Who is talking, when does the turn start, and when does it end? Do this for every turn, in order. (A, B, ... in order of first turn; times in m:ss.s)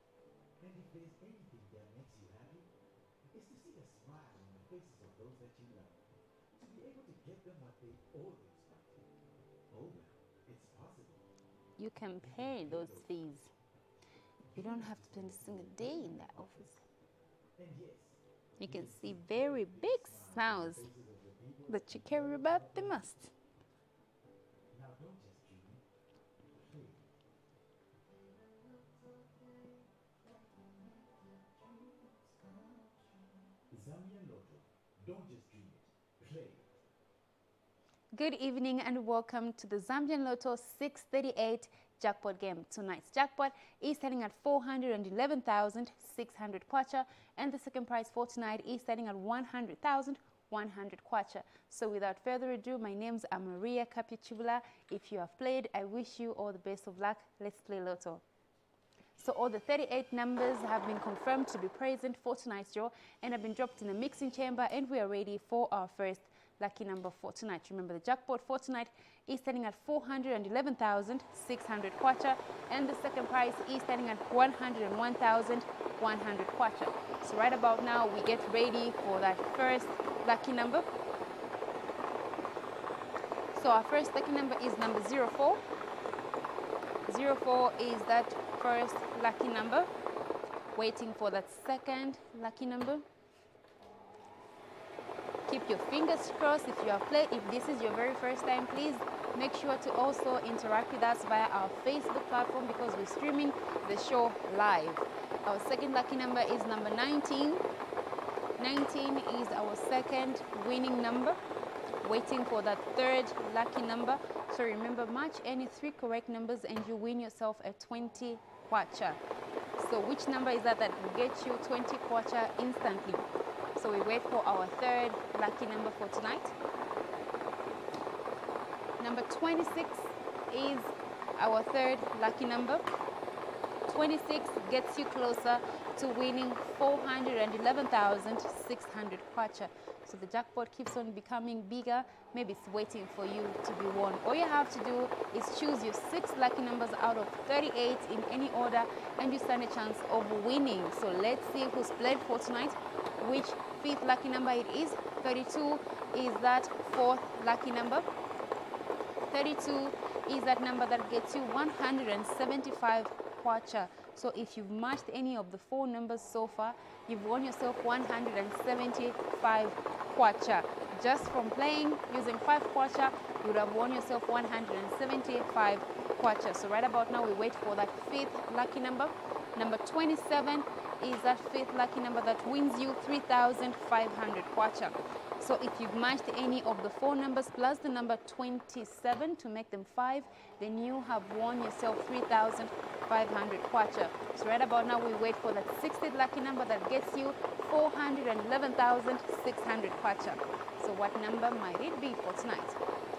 0:00.6-0:02.7 A
0:03.3-0:06.0 A
0:06.5-0:09.0 A
0:09.7-0:11.3 A
0:11.8-0:13.5 B
0:12.2-0:13.2 A
0:14.5-0:16.7 A
0:14.5-0:16.8 B
0:17.6-0:23.1 A
0:18.6-0:20.9 B
0:21.7-0:23.3 B
0:24.7-0:25.8 A
0:26.5-0:27.1 A
0:28.6-0:36.7 A
0:38.1-0:58.2 B
0:59.2-1:20.9 B
1:23.5-1:25.6 B
1:27.1-1:29.9 B
1:30.8-1:33.0 B
1:35.5-1:47.7 B
1:48.6-1:51.4 B
1:52.0-1:59.2 B
1:59.8-2:03.2 B
2:03.8-2:06.5 B
2:09.0-2:12.9 B
2:13.9-2:38.1 B
2:39.3-3:22.8 B